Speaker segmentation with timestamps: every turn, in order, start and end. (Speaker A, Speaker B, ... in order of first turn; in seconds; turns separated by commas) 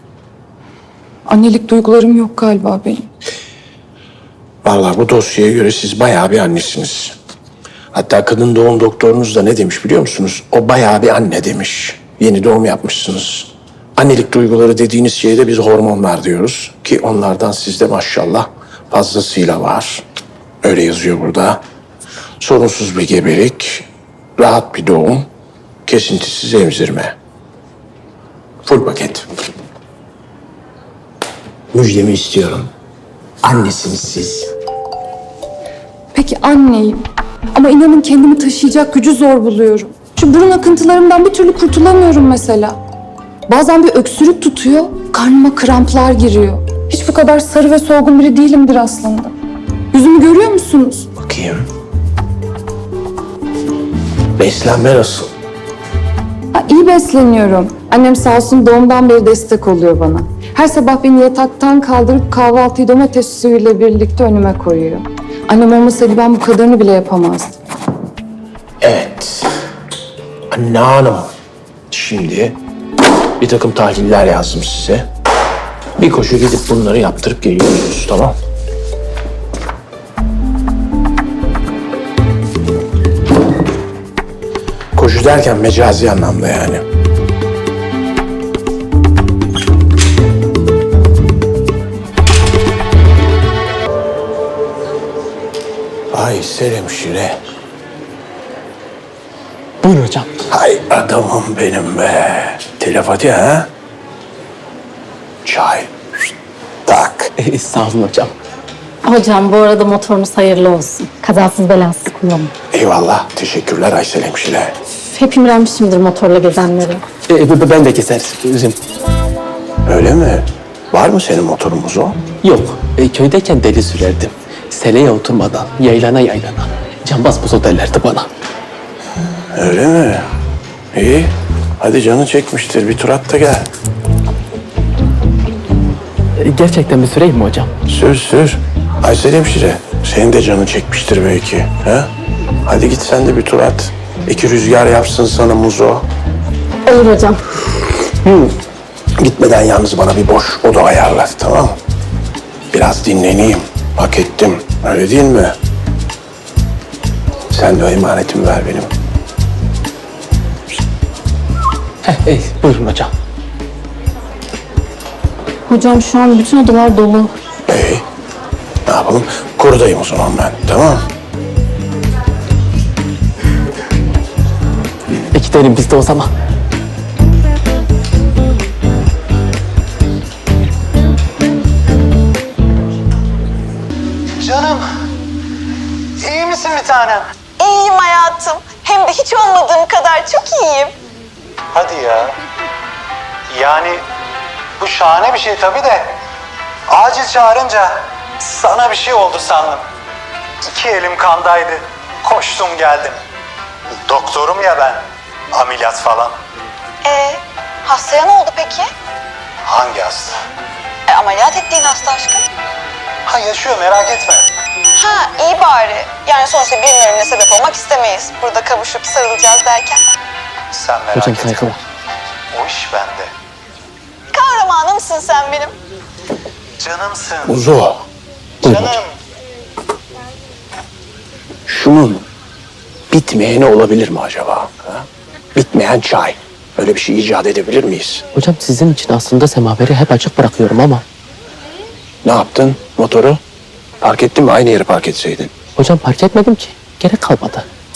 Speaker A: 1.3-3.1, Speaker B: 4.6-7.2, Speaker B: 7.9-20.0, Speaker B: 20.6-21.6, Speaker B: 22.4-23.9, Speaker B: 24.4-25.3, Speaker B: 25.9-27.1, Speaker B: 28.6-29.3, Speaker B: 31.7-32.7, Speaker B: 33.4-34.5, Speaker A: 36.1-42.8, Speaker A: 43.5-49.4, Speaker A: 49.9-51.1, Speaker B: 51.2-51.6, Speaker B: 54.4-55.3, Speaker A: 56.5-67.6, Speaker B: 68.8-69.5, Speaker B: 70.5-71.3, Speaker B: 71.9-72.6, Speaker B: 73.4-75.1, Speaker B: 76.0-78.4, Speaker B: 85.0-86.8, Speaker B: 96.1-97.4, Speaker C: 99.8-100.3, Speaker B: 100.5-103.7, Speaker B: 105.5-106.3, Speaker B: 106.9-107.3, Speaker C: 107.4-108.3, Speaker D: 109.0-112.5, Speaker B: 112.7-114.8, Speaker D: 115.0-117.1, Speaker C: 117.2-118.8, Speaker B: 119.9-122.2, Speaker C: 122.4-128.3, Speaker B: 129.5-130.3, Speaker B: 130.9-133.7, Speaker C: 136.4-137.7, Speaker B: 137.9-142.1, Speaker B: 142.7-146.1, Speaker D: 146.9-147.4, Speaker B: 148.0-148.5, Speaker B: 149.2-151.8, Speaker B: 152.7-155.6, Speaker B: 157.5-158.9, Speaker C: 162.1-163.1, Speaker D: 165.7-167.3, Speaker B: 167.7-168.0, Speaker B: 168.9-171.1, Speaker C: 175.3-176.3, Speaker E: 184.4-184.8, Speaker E: 186.2-187.3, Speaker F: 187.6-190.9, Speaker E: 191.7-192.4, Speaker E: 193.5-194.0, Speaker E: 194.8-196.1, Speaker E: 196.9-199.8, Speaker E: 200.6-203.2, Speaker E: 204.1-206.4, Speaker F: 207.0-208.9, Speaker E: 209.7-210.4, Speaker F: 211.1-212.5, Speaker E: 213.3-214.5, Speaker F: 215.0-220.0, Speaker E: 220.7-221.8, Speaker C: 221.1-221.8, Speaker E: 222.5-223.3, Speaker F: 224.3-225.7, Speaker E: 226.8-227.6, Speaker B: 227.4-228.1, Speaker E: 228.6-229.1, Speaker C: 228.6-229.0, Speaker B: 231.7-232.2, Speaker B: 233.1-238.2, Speaker C: 238.4-241.0, Speaker B: 242.2-243.4, Speaker B: 244.0-245.5, Speaker C: 245.8-247.7